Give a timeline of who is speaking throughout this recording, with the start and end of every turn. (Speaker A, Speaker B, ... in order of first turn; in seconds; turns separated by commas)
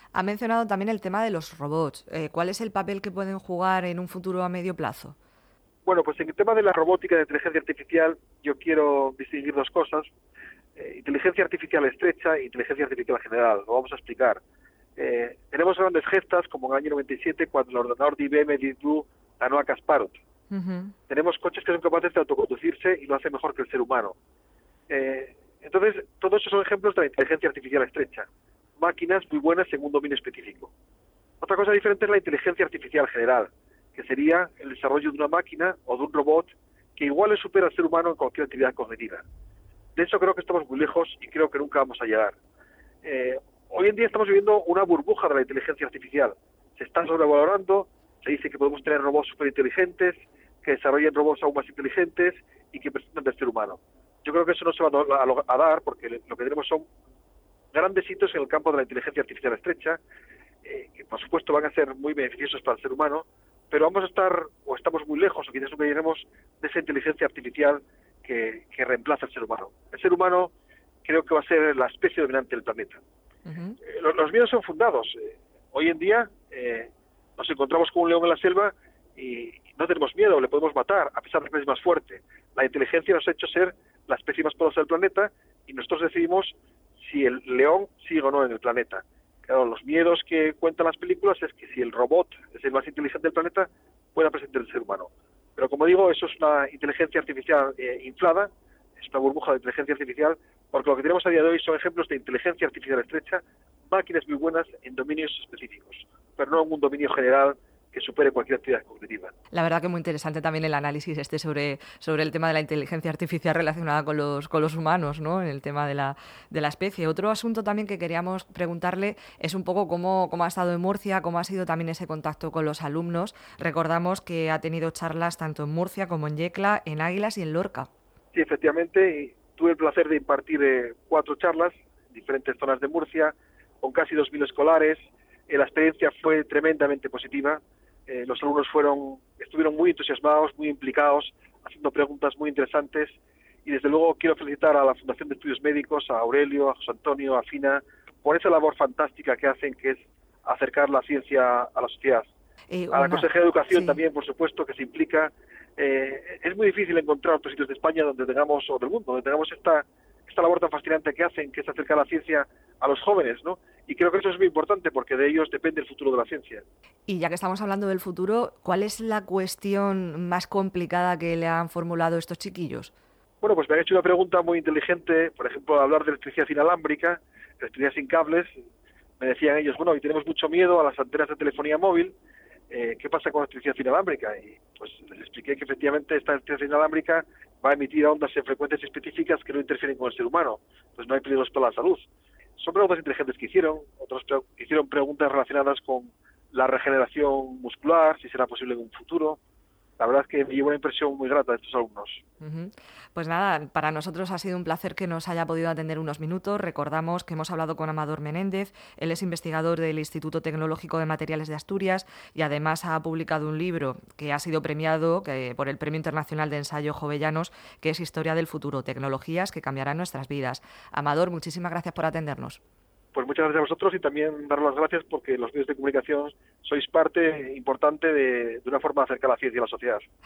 Speaker A: 0.1-5.2, Speaker B: 5.8-10.1, Speaker B: 10.8-14.4, Speaker B: 15.0-20.2, Speaker A: 20.5-20.9, Speaker B: 21.1-24.1, Speaker B: 24.9-30.7, Speaker B: 31.4-39.2, Speaker B: 40.0-42.4, Speaker B: 43.0-56.9, Speaker B: 57.7-60.0, Speaker B: 60.6-70.5, Speaker B: 71.0-73.0, Speaker A: 73.5-73.8, Speaker B: 73.8-109.3, Speaker A: 109.5-127.9, Speaker B: 128.3-152.3, Speaker A: 152.7-154.0, Speaker B: 152.9-166.7, Speaker A: 167.1-172.9, Speaker B: 173.4-178.6, Speaker B: 179.2-182.2, Speaker B: 182.7-199.4, Speaker B: 200.0-202.2, Speaker A: 202.4-222.6, Speaker B: 223.1-230.1